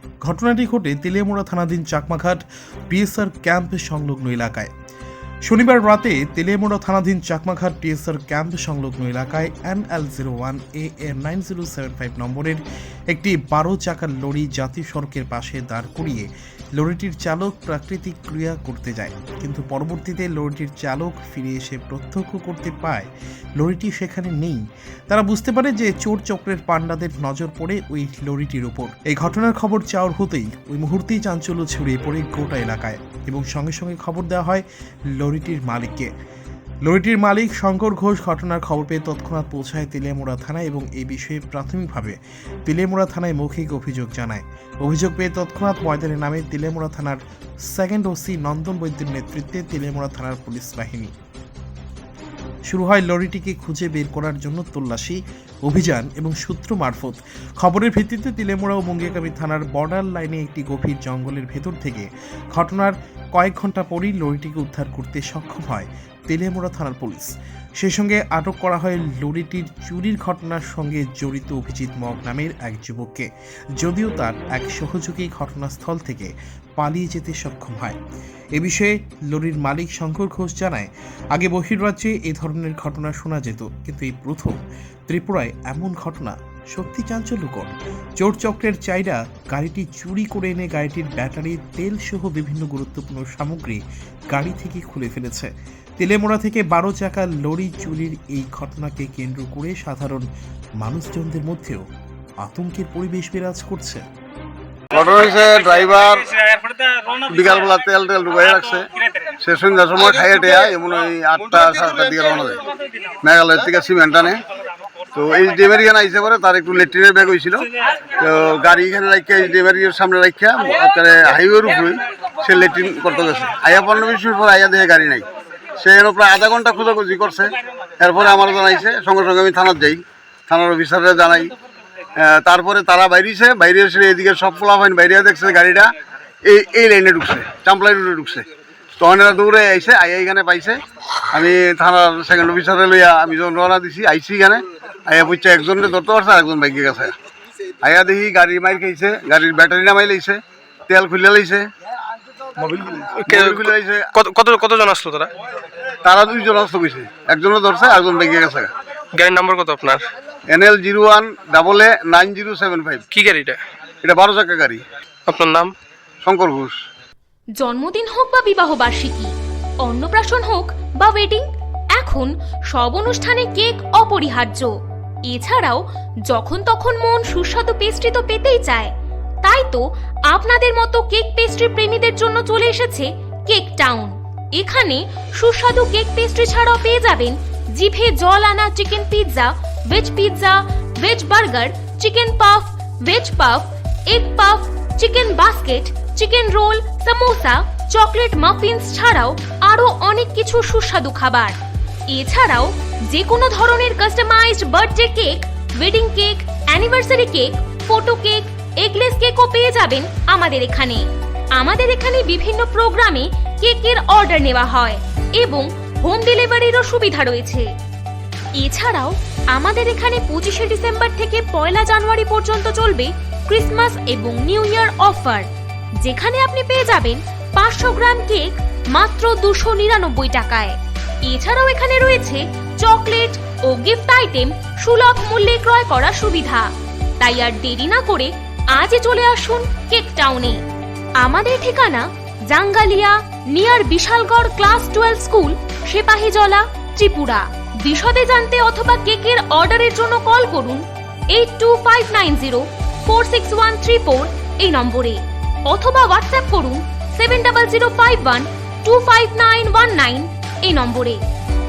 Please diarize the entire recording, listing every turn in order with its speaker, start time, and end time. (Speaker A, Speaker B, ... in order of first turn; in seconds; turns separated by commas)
Speaker A: 0.2-4.7, Speaker A: 5.5-36.1, Speaker A: 36.9-51.1, Speaker A: 52.7-78.0, Speaker A: 78.6-84.6, Speaker A: 85.1-100.3, Speaker A: 100.8-101.8, Speaker A: 102.4-104.0, Speaker B: 104.9-106.3, Speaker B: 107.2-112.6, Speaker B: 113.2-114.4, Speaker B: 115.1-125.3, Speaker B: 125.8-131.5, Speaker B: 132.2-135.9, Speaker B: 136.4-138.4, Speaker B: 139.0-147.1, Speaker B: 147.8-151.7, Speaker C: 152.6-155.3, Speaker B: 153.3-154.1, Speaker B: 156.0-158.7, Speaker C: 159.2-160.1, Speaker B: 160.5-163.0, Speaker C: 163.1-163.6, Speaker B: 164.0-164.8, Speaker C: 165.3-165.7, Speaker B: 166.2-166.8, Speaker D: 167.6-174.7, Speaker D: 175.3-178.9, Speaker D: 179.4-201.6, Speaker D: 202.1-211.1, Speaker D: 211.6-217.7, Speaker D: 218.6-225.5, Speaker D: 226.0-240.6, Speaker D: 241.2-261.2